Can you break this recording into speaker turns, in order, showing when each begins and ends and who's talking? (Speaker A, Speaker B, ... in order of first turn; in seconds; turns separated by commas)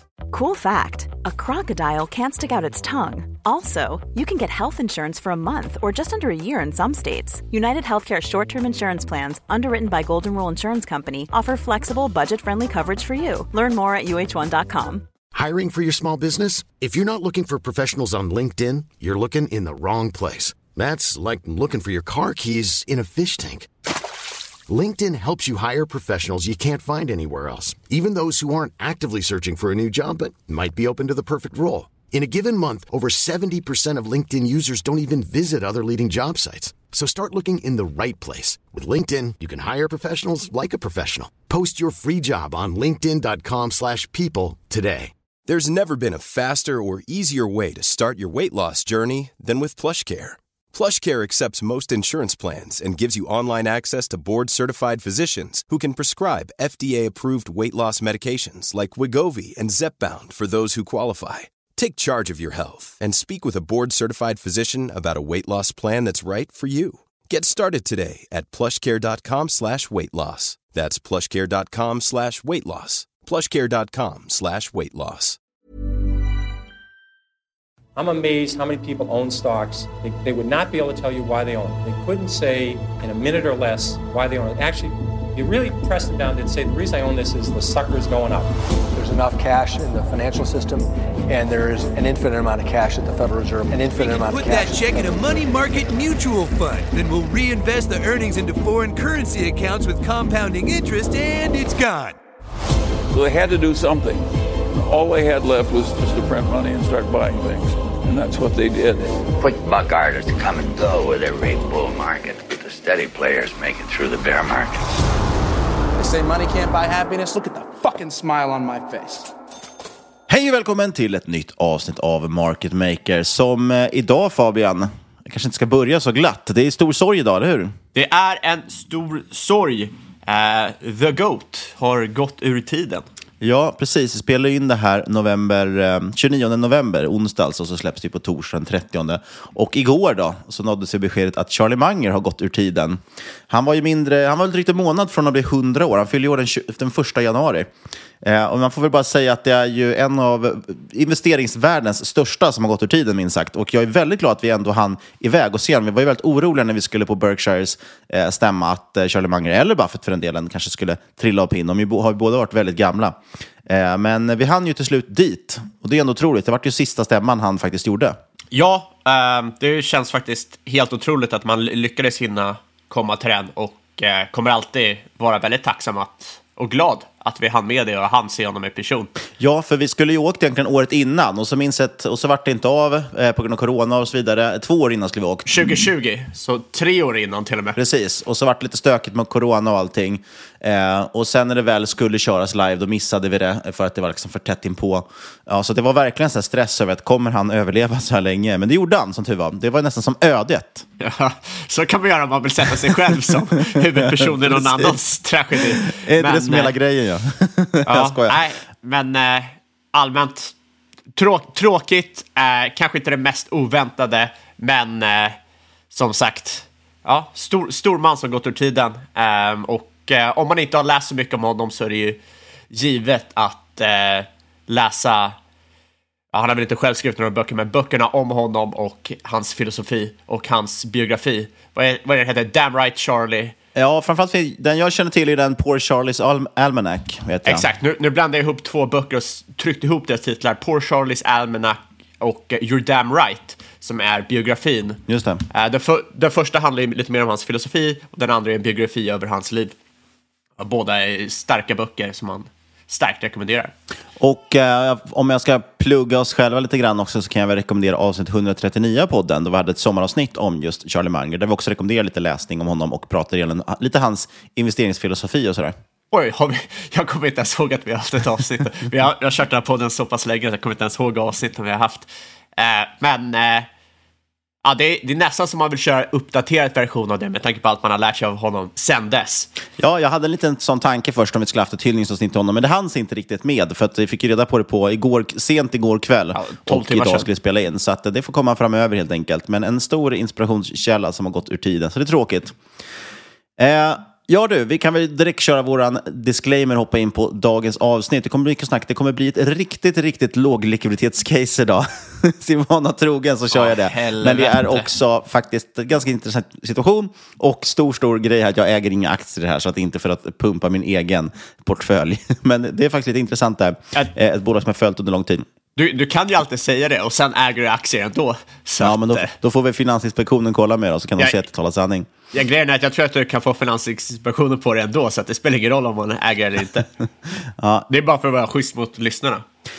Speaker A: 0.3-15.0, Speaker B: 15.3-23.7, Speaker B: 24.7-45.1, Speaker C: 45.5-75.4, Speaker D: 78.0-88.5, Speaker E: 88.9-95.1, Speaker F: 93.9-102.2, Speaker G: 103.1-109.1, Speaker H: 109.4-114.8, Speaker I: 116.0-119.3, Speaker J: 120.3-127.7, Speaker K: 127.9-133.1, Speaker J: 133.4-147.7, Speaker J: 148.2-168.2, Speaker K: 168.5-179.1, Speaker J: 179.4-185.5, Speaker K: 185.4-187.8, Speaker J: 187.8-200.8, Speaker K: 201.0-206.7, Speaker J: 203.7-205.0, Speaker J: 205.5-208.4, Speaker K: 207.8-210.5, Speaker K: 211.1-215.4, Speaker K: 215.9-222.2, Speaker K: 222.7-225.3, Speaker K: 226.3-233.5, Speaker J: 233.7-237.7, Speaker K: 237.4-249.7, Speaker J: 245.1-245.4, Speaker K: 250.6-253.7, Speaker J: 254.2-265.7, Speaker K: 266.1-273.7, Speaker K: 274.6-279.5, Speaker J: 279.8-292.5, Speaker K: 286.3-287.3, Speaker J: 293.6-315.4, Speaker K: 303.5-304.9, Speaker K: 315.8-319.3, Speaker J: 318.8-322.1, Speaker K: 322.3-326.9, Speaker J: 327.6-327.9, Speaker K: 327.9-329.4